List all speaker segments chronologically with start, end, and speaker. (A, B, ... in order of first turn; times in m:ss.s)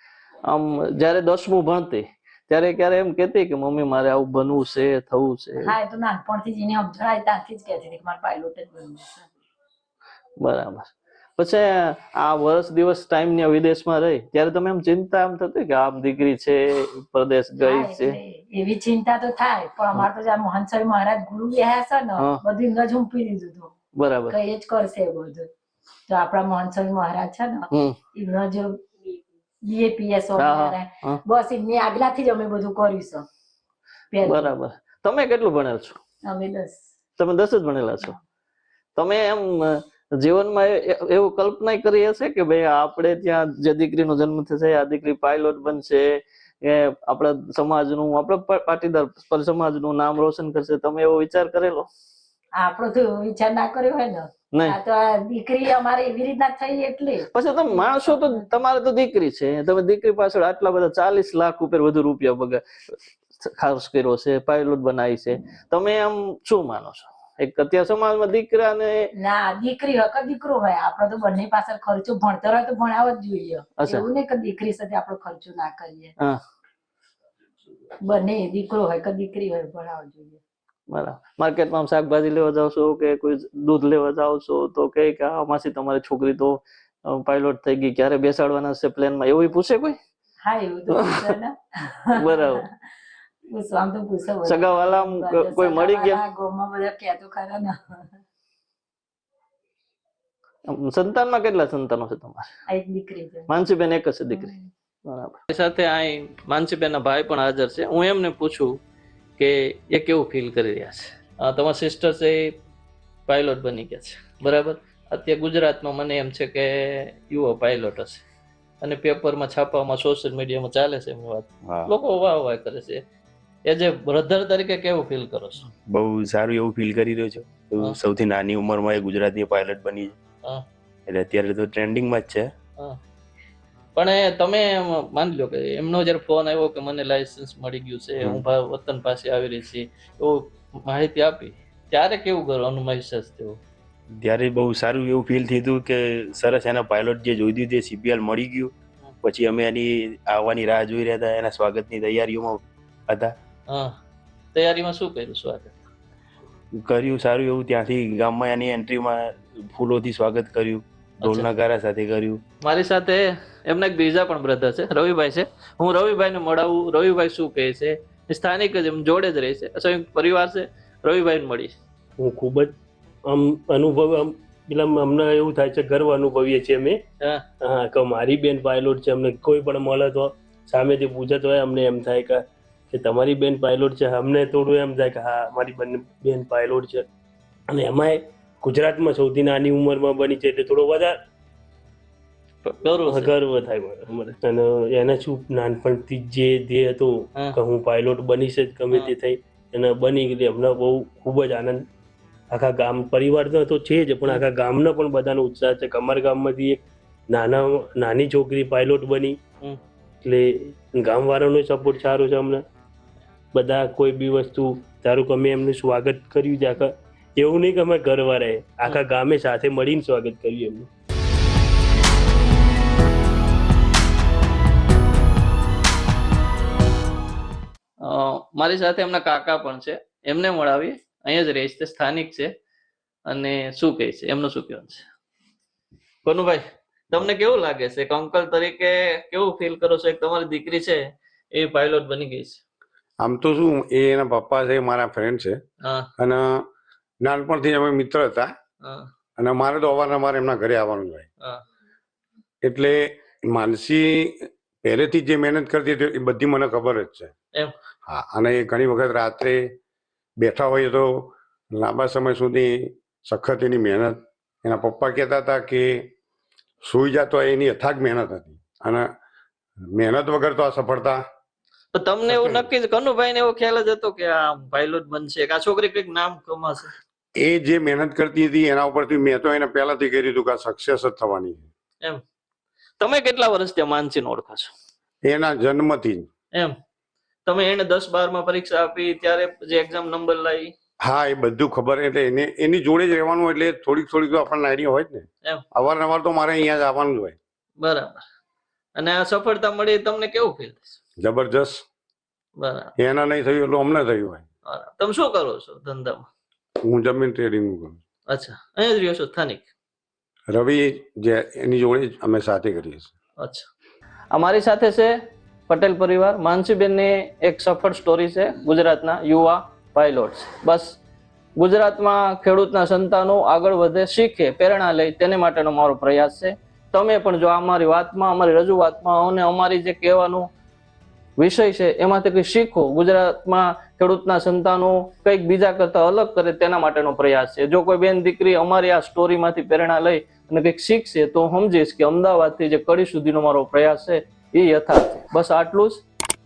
0:00.4-0:05.7 A
0:05.6-0:09.3 B
0:10.4-0:18.2 A
0:17.6-0:23.7 B
0:24.0-0:24.4 A
0:24.3-0:25.5 B
0:26.1-0:33.3 B
0:30.4-0:31.2 A
0:34.1-0:34.5 B
0:34.2-0:36.0 A
0:36.2-0:36.8 B
0:37.2-0:38.2 A
0:39.0-0:51.9 A
0:52.6-0:58.5 B
0:54.5-0:54.8 A
0:57.3-1:02.6 A
1:03.4-1:09.0 A
1:09.1-1:16.1 B
1:13.8-1:14.0 A
1:18.0-1:20.4 B
1:20.9-1:30.0 A
1:30.4-1:32.7 B
1:30.9-1:31.3 A
1:32.2-1:32.6 A
1:33.5-1:38.2 B
1:34.4-1:36.2 A
1:40.7-1:42.4 A
1:42.7-1:43.5 B
1:43.5-1:44.5 A
1:44.3-1:44.7 B
1:45.0-1:48.8 A
1:49.4-1:52.6 A
1:53.3-1:58.2 A
1:58.8-2:03.0 A
2:01.6-2:01.9 C
2:03.6-2:05.7 A
2:05.9-2:10.1 C
2:11.1-2:12.5 C
2:14.0-2:23.6 A
2:24.2-2:28.7 C
2:29.2-2:33.4 C
2:33.7-2:33.9 A
2:34.5-2:35.8 A
2:36.8-2:42.4 C
2:41.2-2:41.5 A
2:42.6-2:51.7 A
2:52.2-2:52.7 D
2:53.3-2:57.0 D
2:57.6-3:07.0 D
3:07.7-3:11.1 D
3:12.6-3:13.3 A
3:13.1-3:21.8 D
3:22.5-3:29.4 D
3:30.2-3:32.6 D
3:33.5-3:40.9 D
3:48.0-3:52.5 A
3:53.2-3:55.0 A
3:56.2-4:02.6 A
4:03.2-4:05.6 E
4:05.8-4:06.1 A
4:06.2-4:06.6 E
4:07.2-4:08.5 E
4:08.8-4:09.1 A
4:09.4-4:11.3 E
4:12.6-4:17.3 E
4:18.1-4:19.6 E
4:20.4-4:26.1 E
4:26.8-4:29.0 E
4:29.9-4:31.2 E
4:31.9-4:36.9 A
4:32.3-4:32.7 E
4:37.4-4:41.6 E
4:43.0-4:44.7 A
4:45.2-4:46.3 E
4:47.4-4:50.7 A
4:51.0-4:57.4 E
4:57.8-4:58.2 A
4:59.0-5:01.0 A
5:01.2-5:01.8 E
5:02.6-5:02.9 A
5:03.0-5:04.4 E
5:04.7-5:06.2 A
5:06.8-5:08.0 E
5:08.3-5:09.7 A
5:10.5-5:13.1 E
5:13.4-5:13.7 A
5:14.3-5:15.1 A
5:15.7-5:21.0 A
5:21.6-5:30.5 A
5:31.4-5:46.0 A